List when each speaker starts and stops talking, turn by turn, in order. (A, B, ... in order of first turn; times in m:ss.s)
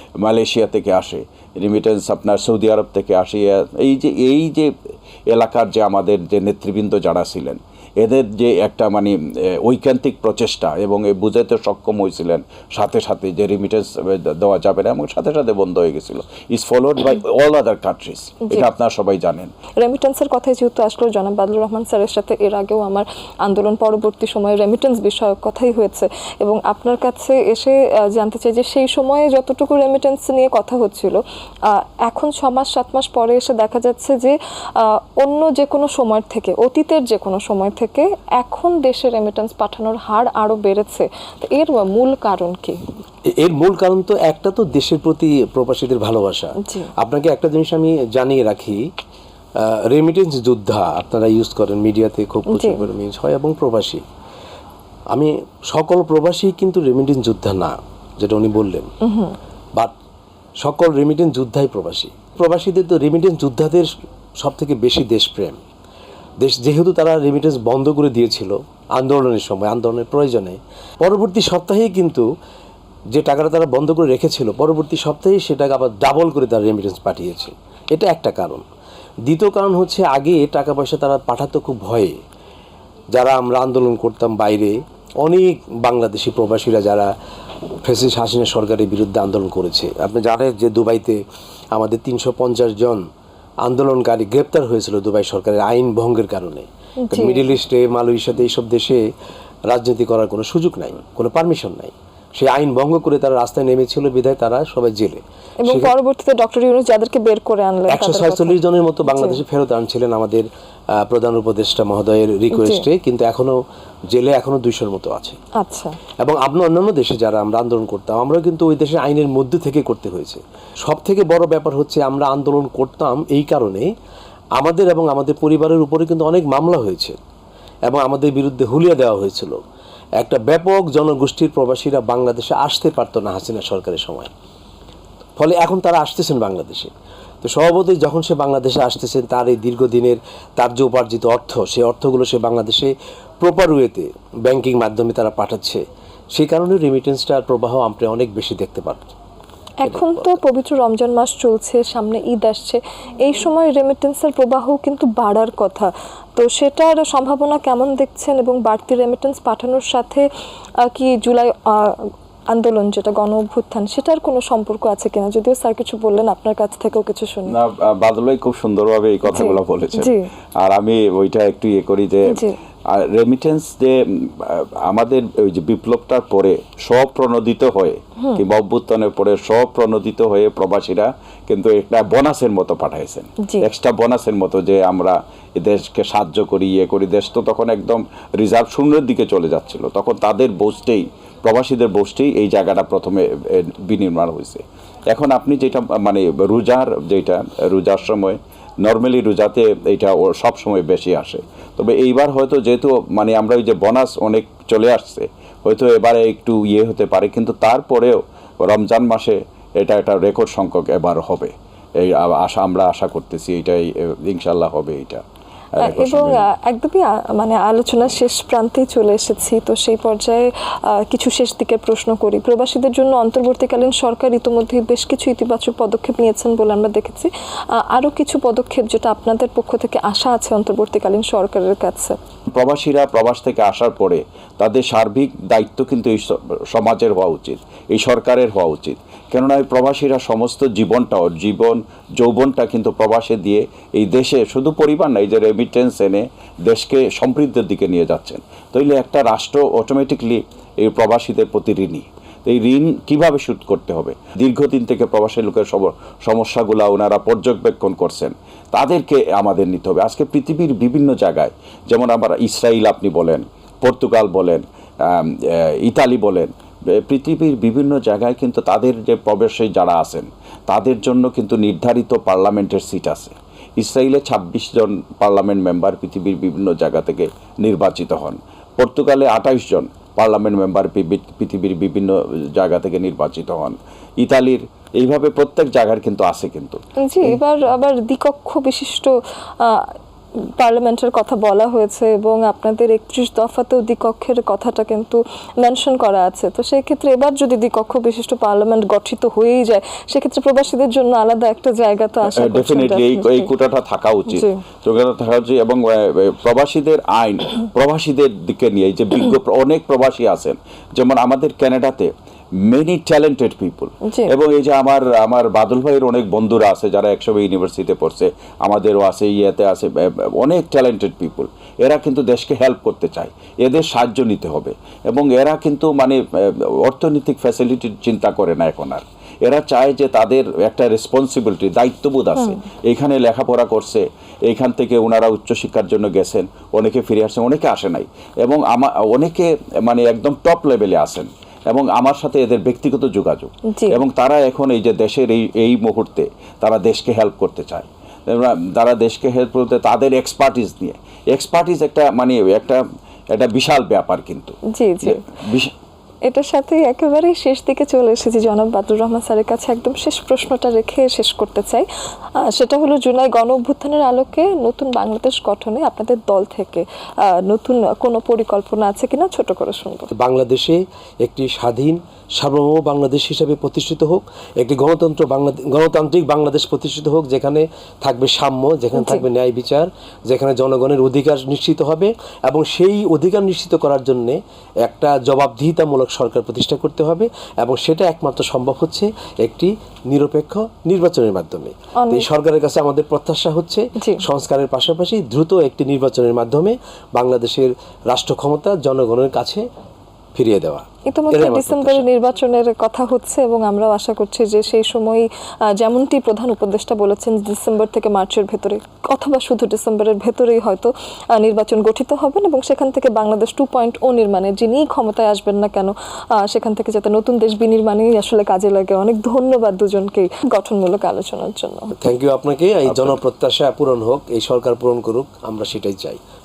0:00.2-0:04.7 A
0:05.3-0:19.5 A
0:19.8-0:42.8 B
0:43.3-0:48.8 C
0:46.6-0:46.9 B
0:49.6-0:54.0 C
0:52.5-0:52.8 B
0:55.1-0:58.9 C
0:59.0-0:59.4 B
1:00.6-1:05.6 C
1:06.4-1:12.3 C
1:13.1-1:18.6 C
1:19.3-1:22.2 C
1:23.1-1:27.1 C
1:27.8-1:31.2 C
1:31.8-1:33.0 C
1:33.6-1:39.0 C
1:37.0-1:37.5 B
1:39.7-1:45.9 C
1:45.6-1:49.4 B
1:47.9-1:55.4 C
1:52.5-1:52.9 B
1:55.6-1:56.0 B
1:56.2-2:03.9 C
2:04.6-2:07.2 C
2:07.8-2:09.6 C
2:10.2-2:14.3 C
2:15.4-2:25.8 C
2:26.4-2:29.1 C
2:29.8-2:40.3 B
2:29.9-2:30.4 C
2:40.8-2:47.5 B
2:47.5-3:35.2 A
2:49.3-2:50.3 B
2:52.3-2:52.6 B
3:35.8-3:52.2 B
3:35.8-3:36.4 A
3:52.5-4:47.4 A
4:47.0-4:49.9 B
4:50.6-5:03.5 B
5:02.3-5:12.1 A
5:04.3-5:04.6 B
5:12.6-5:52.8 A
5:14.0-5:14.3 B
5:43.7-5:44.0 B
5:53.3-5:55.7 A
5:54.7-5:55.2 B
5:56.2-6:01.9 B
6:02.4-6:10.1 B
6:10.1-6:39.6 C
6:18.9-6:19.2 B
6:32.0-6:32.3 B
6:34.0-6:34.2 B
6:40.4-6:42.1 C
6:41.1-7:01.9 B
7:01.9-7:06.2 C